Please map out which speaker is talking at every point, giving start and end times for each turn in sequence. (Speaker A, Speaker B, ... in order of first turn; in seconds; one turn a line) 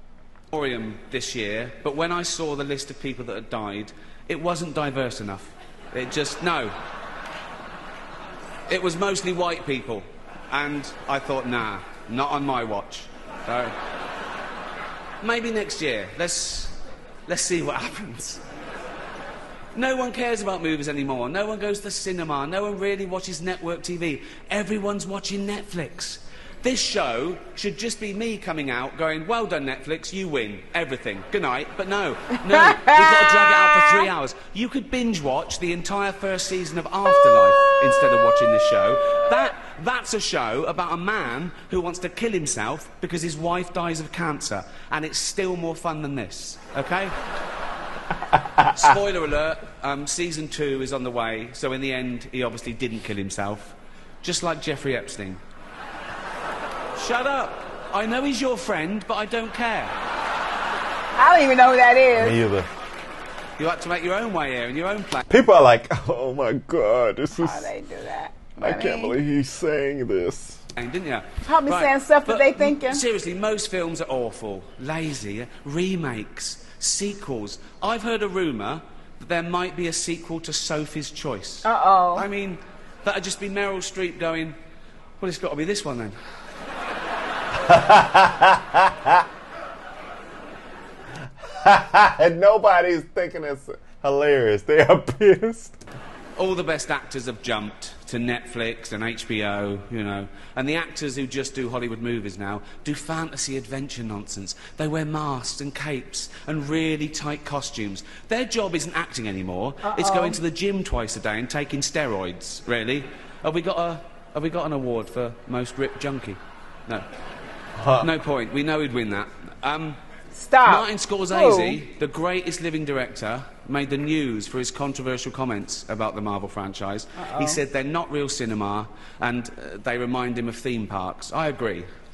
Speaker A: 0.5-6.8
Speaker A: 8.7-13.8
Speaker A: 15.2-18.4
Speaker A: 19.8-47.1
Speaker B: 32.6-34.1
Speaker C: 48.3-48.9
Speaker A: 48.7-55.4
Speaker A: 57.0-59.9
Speaker B: 61.2-62.4
Speaker C: 62.2-62.7
Speaker A: 63.6-65.2
Speaker C: 65.3-67.7
Speaker B: 67.3-69.2
Speaker C: 68.6-70.6
Speaker A: 70.8-84.6
Speaker B: 71.4-73.0
Speaker B: 81.6-82.3
Speaker A: 85.2-86.2
Speaker C: 87.5-89.2
Speaker C: 91.4-95.8
Speaker A: 96.4-117.0
Speaker B: 109.8-110.4
Speaker C: 117.8-118.1
Speaker A: 118.0-120.0
Speaker B: 120.3-121.8
Speaker A: 120.6-131.9
Speaker B: 127.2-127.6